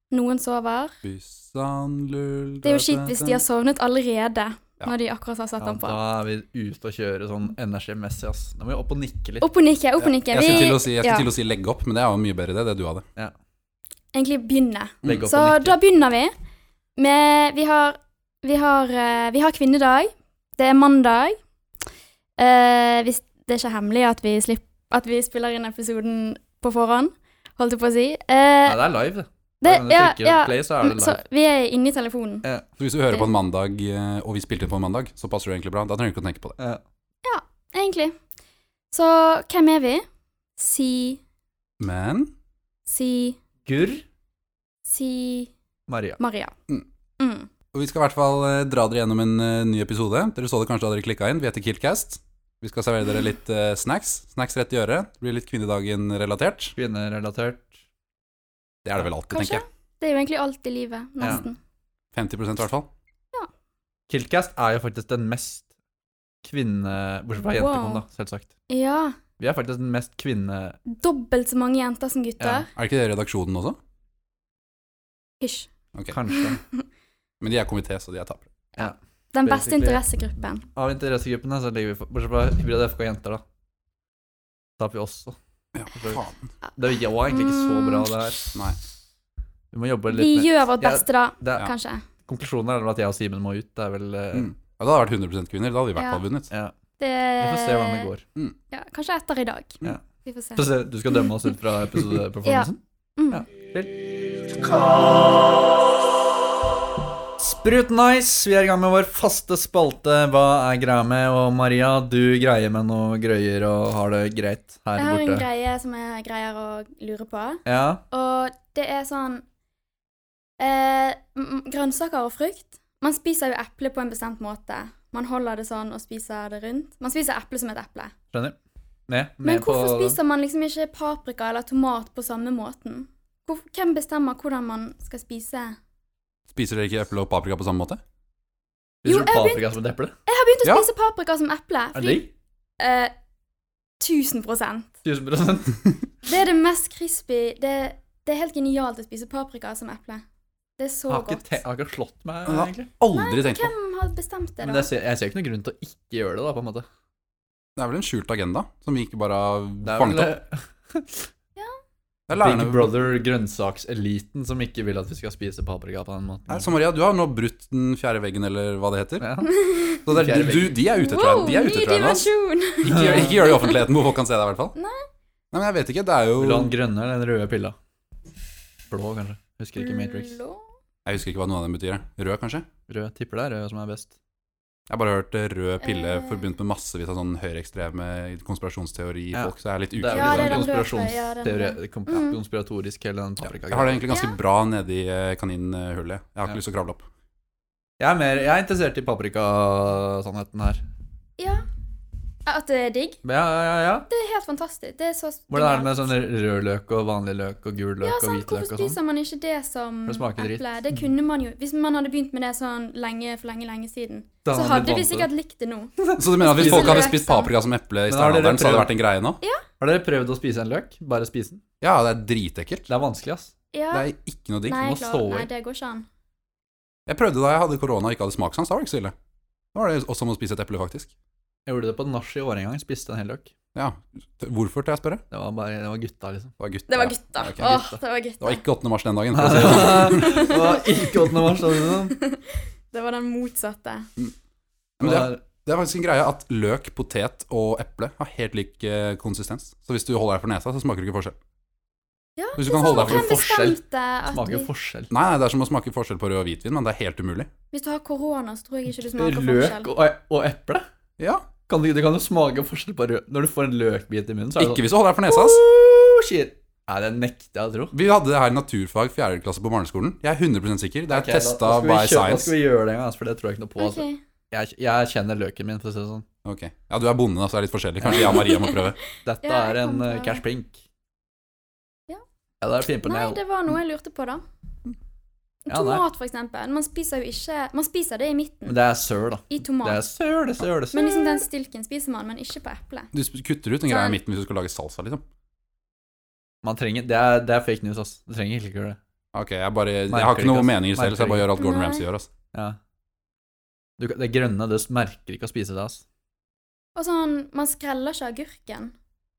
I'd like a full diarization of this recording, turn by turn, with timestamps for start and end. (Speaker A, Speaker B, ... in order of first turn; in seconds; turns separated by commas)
Speaker A: 0.1-1.0, Speaker B: 1.0-3.4, Speaker A: 2.6-6.0, Speaker C: 5.6-9.4, Speaker A: 9.4-11.3, Speaker B: 10.0-13.1, Speaker A: 14.1-16.3, Speaker B: 15.0-15.3, Speaker C: 15.0-15.8, Speaker A: 17.0-21.4, Speaker A: 22.4-28.8, Speaker C: 28.7-31.2, Speaker A: 29.6-32.5, Speaker B: 32.8-36.6, Speaker A: 37.2-38.2, Speaker A: 38.9-40.0, Speaker A: 40.6-41.2, Speaker B: 41.8-42.3, Speaker A: 42.9-43.4, Speaker C: 43.7-44.0, Speaker A: 44.9-45.5, Speaker C: 45.9-46.2, Speaker A: 46.2-46.5, Speaker A: 47.2-47.5, Speaker B: 47.7-56.8, Speaker C: 56.8-57.8, Speaker B: 58.9-59.6, Speaker A: 59.3-61.6, Speaker B: 62.1-62.9, Speaker C: 64.1-65.7, Speaker C: 66.4-68.5, Speaker A: 67.5-68.0, Speaker A: 68.7-69.2, Speaker C: 69.4-70.8, Speaker A: 70.9-72.7, Speaker C: 72.4-72.7, Speaker B: 72.7-73.8, Speaker A: 75.4-75.7, Speaker C: 76.1-76.6, Speaker A: 76.3-76.8, Speaker B: 77.4-78.5, Speaker C: 78.8-80.0, Speaker A: 78.8-80.7, Speaker C: 80.8-83.4, Speaker C: 84.8-85.4, Speaker B: 85.8-86.3, Speaker C: 85.9-86.2, Speaker C: 86.8-88.5, Speaker A: 87.3-88.5, Speaker C: 89.7-91.7, Speaker A: 90.1-92.1, Speaker C: 92.2-94.5, Speaker B: 94.3-96.5, Speaker A: 96.0-96.2, Speaker A: 97.0-98.1, Speaker C: 97.4-98.2, Speaker A: 98.7-101.3, Speaker C: 100.6-102.8, Speaker A: 102.5-103.5, Speaker C: 103.3-104.0, Speaker C: 107.4-115.5, Speaker A: 115.0-119.4, Speaker C: 117.7-118.0, Speaker A: 120.6-128.1, Speaker C: 129.1-130.2, Speaker A: 129.4-135.8, Speaker B: 136.5-138.0, Speaker C: 139.0-140.2, Speaker A: 139.1-142.3, Speaker C: 141.9-142.3, Speaker A: 142.8-143.1, Speaker A: 144.0-144.9, Speaker C: 145.0-145.9, Speaker A: 146.2-150.2, Speaker A: 150.8-151.6, Speaker C: 151.1-152.9, Speaker B: 152.5-153.7, Speaker A: 153.1-154.9, Speaker C: 154.6-156.9, Speaker B: 157.8-160.4, Speaker C: 159.8-161.3, Speaker B: 162.3-163.1, Speaker C: 162.3-166.7, Speaker B: 166.5-169.3, Speaker C: 169.2-169.5, Speaker A: 169.4-170.0, Speaker B: 170.1-174.8, Speaker C: 170.1-170.8, Speaker A: 170.9-173.8, Speaker C: 172.9-173.3, Speaker A: 174.8-175.0, Speaker B: 175.5-176.7, Speaker C: 176.4-177.8, Speaker C: 178.9-180.4, Speaker A: 179.8-180.6, Speaker B: 181.1-182.7, Speaker C: 182.9-184.1, Speaker B: 184.9-190.7, Speaker A: 185.8-186.5, Speaker C: 189.3-194.1, Speaker A: 190.1-192.4, Speaker B: 193.7-197.0, Speaker A: 194.1-194.4, Speaker C: 198.0-200.8, Speaker A: 201.4-201.7, Speaker A: 202.5-203.2, Speaker C: 203.2-204.1, Speaker A: 204.1-206.1, Speaker C: 205.5-209.0, Speaker A: 208.0-217.5, Speaker C: 210.1-210.7, Speaker C: 214.4-215.3, Speaker C: 216.0-217.2, Speaker B: 216.2-219.4, Speaker C: 218.1-218.9, Speaker C: 219.8-221.6, Speaker B: 221.8-222.9, Speaker C: 222.9-223.5, Speaker A: 223.7-224.1, Speaker B: 223.9-224.9, Speaker A: 224.7-226.1, Speaker C: 224.7-225.5, Speaker B: 227.1-229.2, Speaker B: 229.7-231.1, Speaker C: 231.7-233.5, Speaker B: 233.8-235.2, Speaker C: 235.3-236.5, Speaker B: 236.6-237.8, Speaker A: 236.9-238.6, Speaker C: 237.6-237.9, Speaker B: 238.4-240.5, Speaker C: 239.3-242.2, Speaker A: 240.1-241.0, Speaker A: 241.6-244.1, Speaker C: 245.0-245.4, Speaker B: 245.0-251.4, Speaker A: 252.4-254.7, Speaker B: 252.6-253.3, Speaker C: 252.9-255.1, Speaker B: 255.1-257.5, Speaker A: 257.7-259.9, Speaker C: 259.2-260.9, Speaker B: 261.2-261.5, Speaker C: 261.7-267.9, Speaker B: 264.6-265.6, Speaker B: 267.9-272.5, Speaker C: 271.1-276.3, Speaker A: 273.8-274.2, Speaker B: 276.4-279.0, Speaker C: 278.0-278.5, Speaker A: 278.2-278.9, Speaker C: 279.2-280.8, Speaker A: 279.4-280.4, Speaker C: 282.6-283.4, Speaker A: 283.0-284.4, Speaker A: 285.6-288.8, Speaker C: 285.7-286.0, Speaker C: 288.7-291.4, Speaker A: 289.5-290.0, Speaker A: 290.9-293.1, Speaker B: 293.1-295.2, Speaker A: 293.9-294.2, Speaker C: 296.6-299.0, Speaker B: 299.3-302.3, Speaker C: 300.1-301.5, Speaker A: 301.6-302.1, Speaker C: 302.5-302.8, Speaker C: 304.0-306.0, Speaker A: 306.9-308.9